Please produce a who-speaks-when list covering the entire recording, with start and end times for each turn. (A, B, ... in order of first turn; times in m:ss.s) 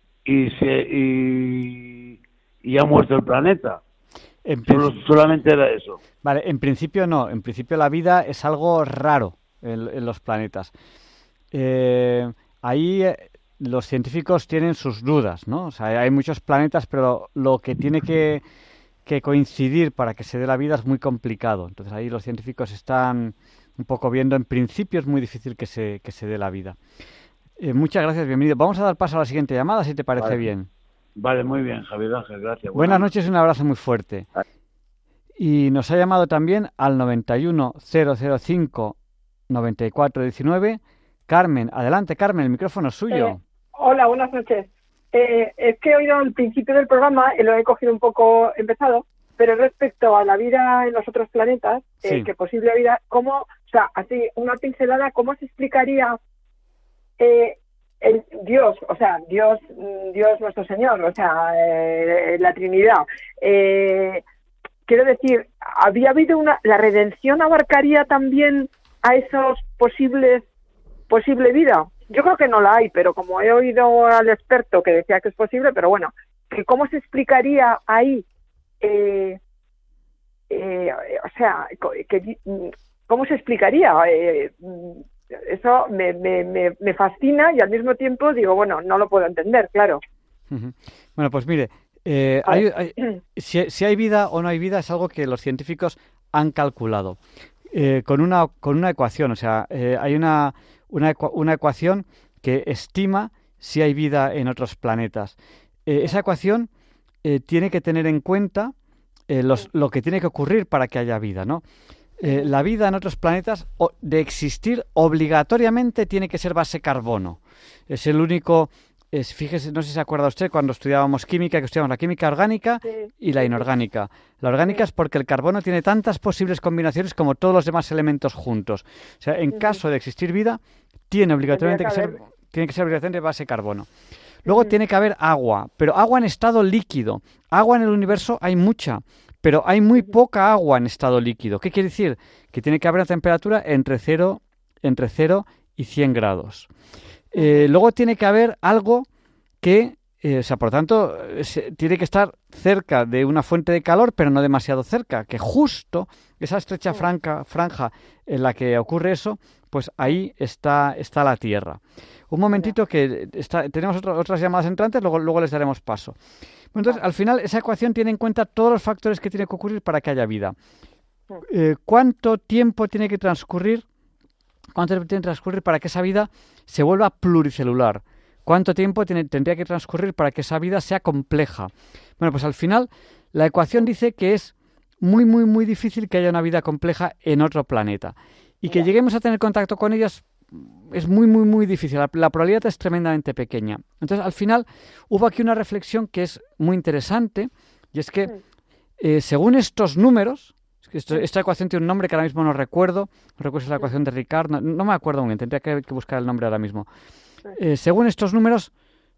0:00.2-0:03.8 A
0:04.4-0:04.9 B
0:04.7-0:06.0 A
0:06.2-0:10.7 B
0:11.5-0:18.4 B
0:19.0-0:26.8 B
0:27.6-0:30.7 B
0:31.2-0:33.1 A
0:32.7-0:34.3 B
0:35.4-0:39.0 B
0:39.5-0:43.4 B
0:43.1-0:56.2 C
0:52.0-0:52.3 B
0:57.2-1:04.2 C
1:04.9-1:10.4 C
1:11.1-1:18.2 C
1:18.8-1:19.4 C
1:20.5-1:30.0 C
1:30.5-1:37.2 B
1:37.7-1:46.7 B
1:47.2-1:48.7 B
1:49.3-1:51.6 B
1:52.2-2:13.9 B
2:02.8-2:03.6 C
2:09.5-2:09.8 C
2:11.5-2:12.2 C
2:14.4-2:26.7 B
2:14.5-2:14.7 C
2:27.3-2:29.1 B
2:27.3-2:27.6 C
2:29.6-2:46.2 B
2:46.7-2:50.6 B
2:51.4-2:53.8 B
2:54.7-3:18.3 B
3:19.0-3:26.9 B
3:27.6-3:28.7 B